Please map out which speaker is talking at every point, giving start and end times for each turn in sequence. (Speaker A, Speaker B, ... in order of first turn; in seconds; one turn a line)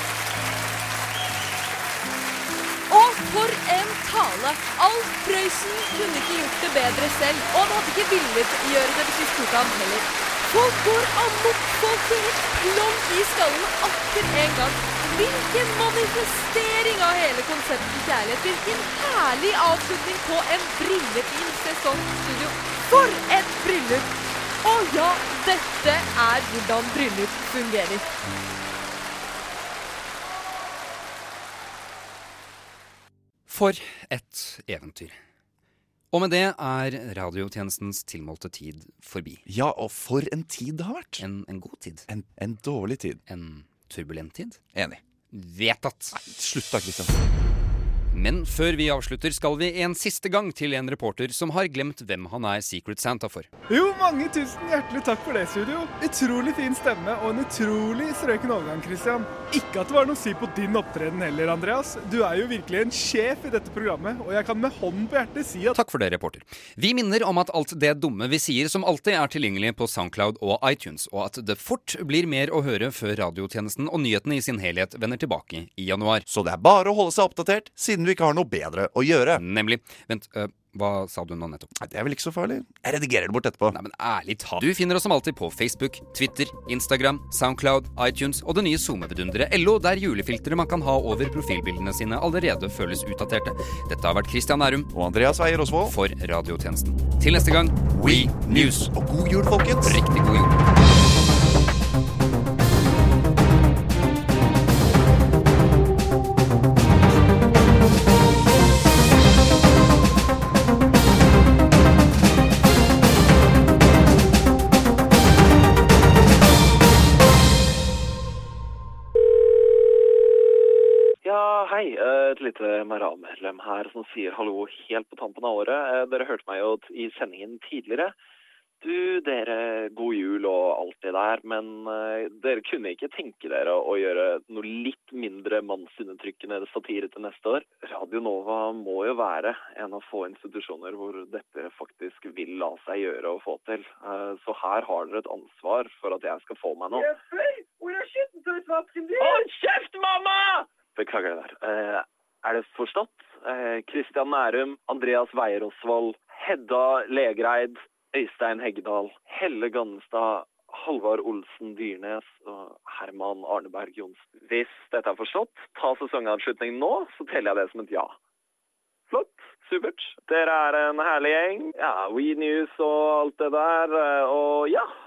Speaker A: 2.9-28.1
Speaker B: 33.5-35.2
Speaker B: 36.1-39.4
Speaker C: 39.5-41.2
Speaker B: 41.2-42.1
Speaker C: 42.1-43.2
Speaker B: 43.3-44.6
Speaker C: 44.7-45.0
Speaker B: 45.3-46.1
Speaker C: 46.1-47.1
Speaker B: 48.1-53.5
Speaker D: 53.7-65.7
Speaker B: 65.7-76.2
Speaker C: 76.3-79.4
Speaker B: 79.3-81.7
Speaker C: 81.8-83.8
Speaker B: 83.7-94.9
Speaker C: 94.9-95.9
Speaker B: 95.8-98.9
Speaker C: 97.9-100.0
Speaker B: 99.8-100.6
Speaker E: 121.2-128.1
Speaker E: 128.8-147.2
Speaker E: 149.1-168.2
Speaker E: 169.1-174.9